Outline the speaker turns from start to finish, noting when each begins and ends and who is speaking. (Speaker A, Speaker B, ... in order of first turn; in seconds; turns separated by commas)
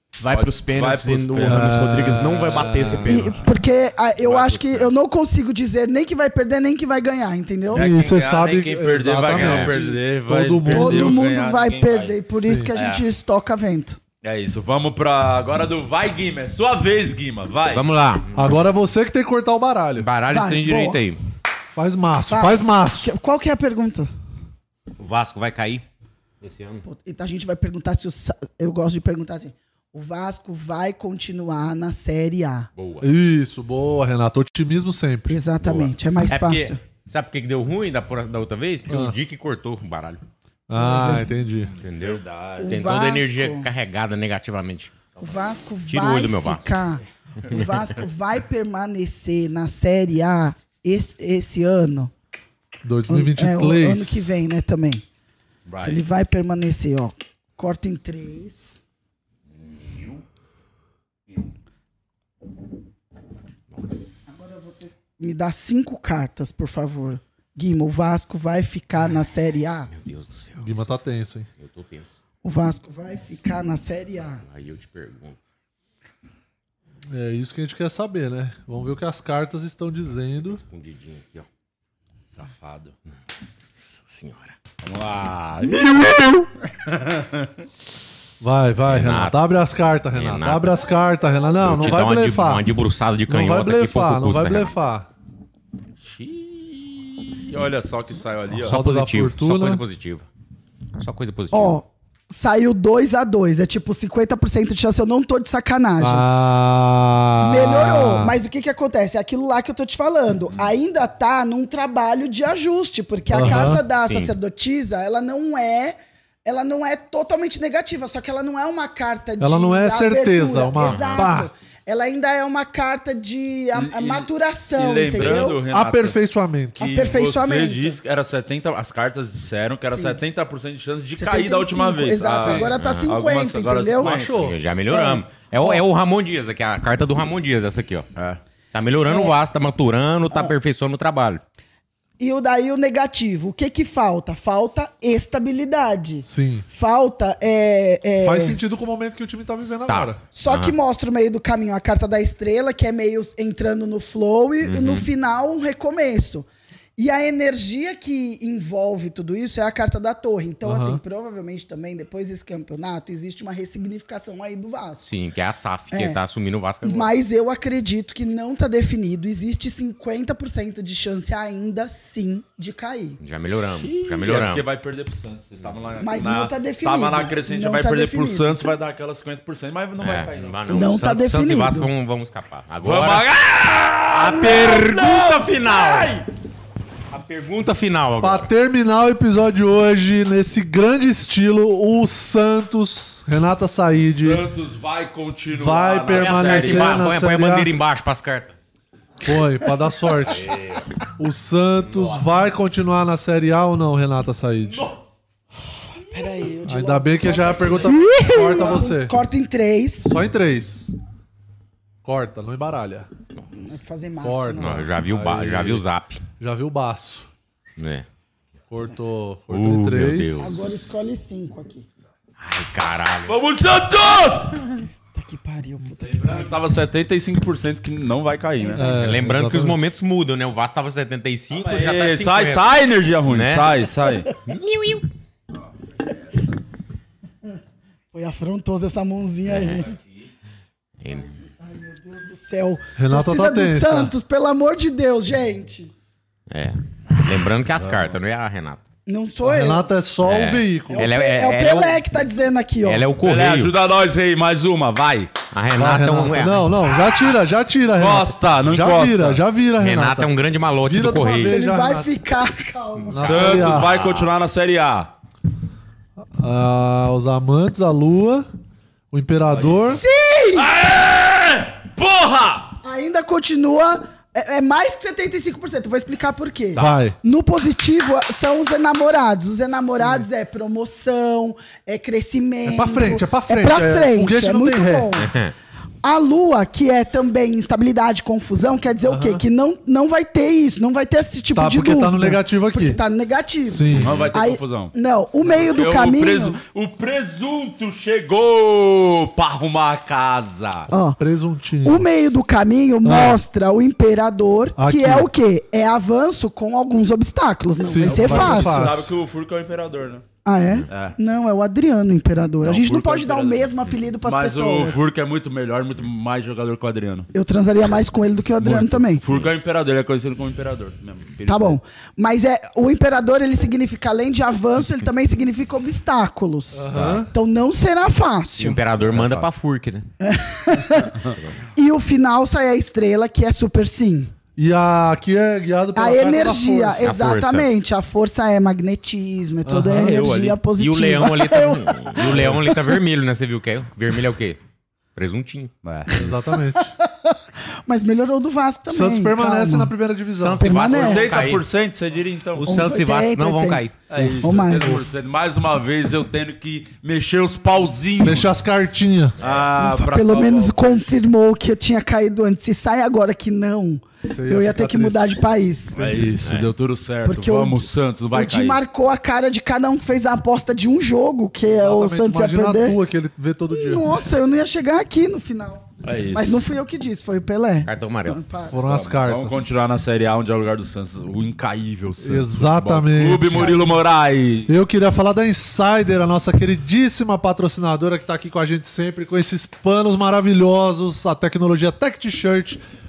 Speaker A: 0.2-3.4, Speaker B: 0.3-1.8, Speaker C: 1.4-3.3, Speaker B: 2.4-3.5, Speaker D: 3.0-7.9, Speaker B: 4.2-4.9, Speaker C: 7.7-11.2, Speaker B: 7.7-12.2, Speaker E: 9.3-9.8, Speaker D: 10.7-14.0, Speaker C: 12.4-12.7, Speaker B: 12.7-13.0, Speaker B: 14.2-17.9, Speaker E: 17.7-18.5, Speaker C: 18.3-20.1, Speaker E: 20.0-21.2, Speaker D: 20.3-21.0, Speaker C: 21.7-23.1, Speaker D: 22.3-24.1, Speaker E: 25.0-25.8, Speaker E: 26.4-26.8, Speaker D: 26.8-32.7, Speaker E: 32.8-33.1, Speaker C: 33.0-35.4, Speaker D: 35.3-36.8, Speaker E: 35.6-40.2, Speaker C: 38.9-39.1, Speaker C: 40.7-41.7, Speaker D: 40.7-41.3, Speaker E: 41.8-44.9, Speaker B: 42.0-42.9, Speaker D: 42.6-43.6, Speaker D: 45.2-52.1, Speaker E: 45.9-46.7, Speaker C: 52.8-54.3, Speaker D: 53.1-55.0, Speaker B: 55.6-56.0, Speaker D: 55.8-58.8, Speaker B: 59.6-60.2, Speaker E: 63.7-64.5, Speaker D: 64.3-69.9, Speaker E: 69.9-70.9, Speaker C: 70.6-71.5, Speaker E: 71.6-72.1, Speaker D: 72.4-74.4, Speaker E: 74.4-75.4, Speaker C: 77.1-80.6, Speaker E: 80.4-81.5, Speaker B: 82.3-82.9, Speaker E: 84.0-84.5, Speaker B: 84.8-86.0, Speaker B: 86.8-87.6, Speaker C: 88.4-92.7, Speaker E: 88.9-89.4, Speaker E: 90.1-90.7, Speaker E: 91.6-94.7, Speaker C: 93.3-95.1, Speaker B: 96.0-98.8, Speaker C: 98.6-99.8, Speaker E: 98.6-100.3, Speaker E: 101.0-101.8, Speaker D: 101.5-106.3, Speaker C: 106.0-108.4, Speaker D: 107.4-125.6, Speaker C: 113.3-113.8, Speaker E: 114.0-114.3, Speaker C: 119.4-121.5, Speaker E: 120.8-121.3, Speaker B: 123.7-126.2, Speaker C: 125.2-126.8, Speaker B: 126.8-134.4, Speaker D: 126.8-128.0, Speaker D: 129.9-130.2, Speaker D: 131.2-134.1, Speaker C: 132.4-132.7, Speaker E: 132.7-133.1, Speaker C: 134.0-134.6, Speaker E: 134.2-138.1, Speaker D: 134.9-135.8, Speaker B: 138.2-138.4, Speaker E: 138.7-141.4, Speaker D: 139.1-139.3, Speaker D: 142.2-148.6, Speaker C: 146.2-146.7, Speaker C: 148.2-150.2, Speaker E: 149.8-150.7, Speaker D: 150.3-165.1, Speaker E: 154.6-155.1, Speaker C: 160.6-161.0, Speaker E: 165.0-167.1, Speaker D: 165.9-166.2, Speaker D: 166.8-173.2, Speaker E: 173.2-174.7, Speaker B: 173.8-180.9, Speaker D: 176.0-178.6, Speaker E: 180.0-183.3, Speaker D: 180.7-181.9, Speaker B: 182.8-186.2, Speaker E: 184.1-186.2, Speaker E: 187.1-188.5, Speaker C: 188.2-194.4, Speaker B: 194.1-197.1, Speaker C: 195.5-197.7, Speaker E: 196.1-198.6, Speaker C: 199.2-200.5, Speaker C: 201.2-204.9, Speaker D: 206.1-210.2, Speaker C: 206.7-209.2, Speaker C: 210.0-210.9, Speaker C: 212.0-213.1, Speaker D: 213.5-214.8, Speaker C: 214.2-215.8, Speaker E: 214.6-216.2, Speaker C: 216.4-217.3, Speaker E: 217.8-218.1, Speaker C: 218.7-220.5, Speaker E: 219.5-220.9, Speaker D: 220.4-221.8, Speaker E: 222.4-223.4, Speaker B: 223.3-224.6, Speaker D: 225.1-226.5, Speaker B: 226.0-228.8, Speaker D: 228.6-228.9, Speaker C: 228.8-229.8, Speaker E: 228.9-233.9, Speaker B: 231.5-234.3, Speaker E: 234.4-235.0, Speaker D: 238.1-239.9, Speaker E: 239.5-239.8, Speaker E: 241.0-241.3, Speaker D: 241.6-245.9, Speaker C: 243.0-244.1, Speaker E: 246.5-248.8, Speaker D: 249.1-249.9, Speaker C: 249.4-251.1, Speaker E: 250.2-252.1, Speaker D: 250.9-253.1, Speaker E: 252.8-253.7, Speaker B: 253.2-255.3, Speaker E: 255.5-256.6, Speaker C: 255.8-262.1, Speaker B: 257.9-259.4, Speaker E: 259.8-261.6, Speaker D: 261.4-263.7, Speaker C: 263.1-264.0, Speaker B: 263.2-265.1, Speaker E: 263.4-264.3, Speaker C: 266.3-268.5, Speaker C: 269.1-270.0, Speaker B: 269.5-272.7, Speaker D: 269.9-270.7, Speaker D: 272.8-285.3, Speaker C: 276.8-277.2, Speaker C: 279.8-280.3, Speaker C: 282.6-285.1, Speaker E: 285.2-285.5, Speaker D: 286.0-296.6, Speaker C: 289.0-289.4, Speaker C: 291.5-293.0, Speaker C: 293.7-294.3, Speaker B: 294.0-300.9, Speaker D: 300.9-301.2, Speaker C: 300.9-302.1, Speaker D: 301.8-308.9, Speaker C: 303.0-303.4, Speaker C: 304.8-305.3, Speaker C: 307.8-309.1, Speaker B: 308.0-310.2, Speaker D: 310.4-315.0, Speaker B: 310.9-311.1, Speaker B: 312.6-313.7, Speaker B: 314.2-317.3, Speaker D: 317.3-319.2, Speaker B: 318.6-321.8, Speaker D: 321.5-328.8, Speaker C: 326.7-327.3, Speaker E: 326.9-327.2, Speaker E: 328.6-330.1, Speaker B: 329.1-329.4, Speaker D: 330.2-331.2, Speaker D: 331.7-334.3, Speaker C: 334.6-337.2, Speaker D: 335.9-343.0, Speaker E: 337.0-337.7, Speaker C: 339.6-340.2, Speaker B: 339.7-340.6, Speaker E: 340.8-344.6, Speaker E: 345.1-345.7, Speaker B: 345.8-346.2, Speaker C: 346.1-346.9, Speaker D: 346.5-349.9, Speaker C: 348.9-350.9, Speaker E: 350.3-351.7, Speaker D: 350.6-351.4, Speaker B: 350.9-352.9, Speaker E: 352.6-353.9, Speaker D: 352.6-353.8, Speaker B: 354.1-358.5, Speaker C: 354.1-355.1, Speaker D: 354.4-354.9, Speaker C: 358.2-359.4, Speaker B: 359.4-361.1, Speaker D: 359.8-366.3, Speaker C: 364.2-365.4, Speaker B: 365.9-368.8, Speaker E: 366.4-366.7, Speaker D: 367.2-373.0, Speaker C: 371.7-374.1, Speaker D: 373.7-378.9, Speaker B: 376.0-376.6, Speaker E: 377.8-378.4, Speaker C: 378.7-379.7, Speaker B: 378.8-384.7, Speaker C: 382.2-383.8, Speaker D: 383.5-383.9, Speaker C: 384.7-392.8